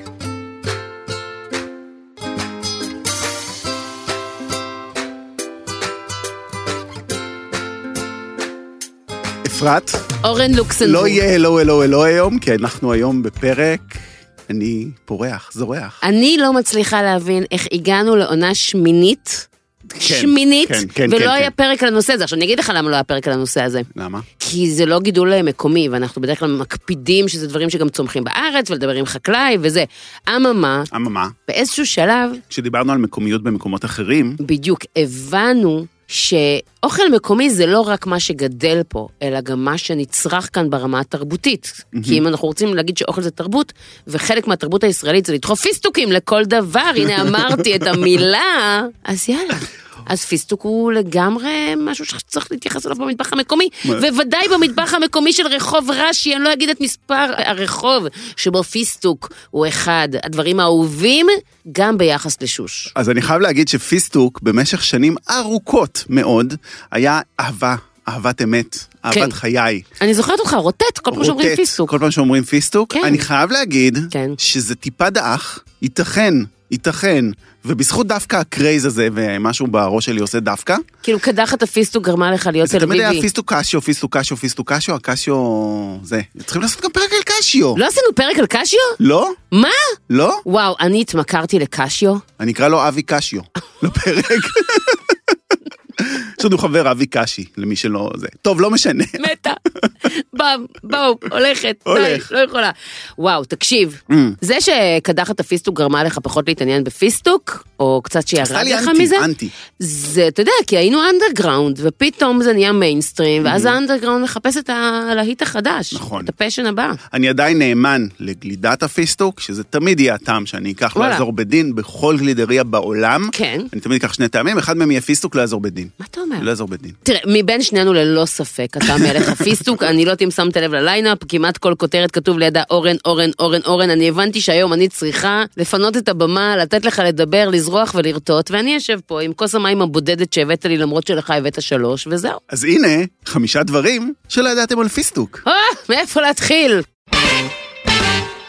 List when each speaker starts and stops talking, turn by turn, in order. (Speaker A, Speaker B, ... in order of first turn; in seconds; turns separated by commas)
Speaker A: 9.4-10.1, Speaker B: 10.2-11.2, Speaker A: 10.8-16.0, Speaker B: 16.0-19.5, Speaker A: 19.9-21.5, Speaker B: 20.0-23.9, Speaker A: 23.9-24.2, Speaker B: 24.4-30.9, Speaker A: 30.9-31.3, Speaker B: 31.5-32.4, Speaker A: 32.5-34.4, Speaker B: 34.4-62.9, Speaker A: 41.9-42.2, Speaker A: 62.9-69.8, Speaker B: 69.1-69.3, Speaker B: 70.0-71.9, Speaker A: 71.1-80.8, Speaker B: 72.9-73.2, Speaker B: 74.1-74.4, Speaker B: 81.0-83.3, Speaker A: 82.6-87.8, Speaker B: 87.7-89.0, Speaker A: 89.0-89.4, Speaker B: 89.5-92.2, Speaker A: 90.1-90.4, Speaker A: 92.4-95.3, Speaker A: 96.0-99.2, Speaker B: 99.2-117.0, Speaker A: 101.8-102.2, Speaker A: 104.1-104.4, Speaker A: 108.4-109.5, Speaker A: 113.4-113.8, Speaker A: 115.9-116.3, Speaker A: 117.1-127.0, Speaker B: 120.9-121.2, Speaker B: 123.3-123.7, Speaker B: 126.0-126.5, Speaker B: 127.0-142.4, Speaker A: 129.0-129.7, Speaker A: 142.5-145.4, Speaker B: 145.4-146.8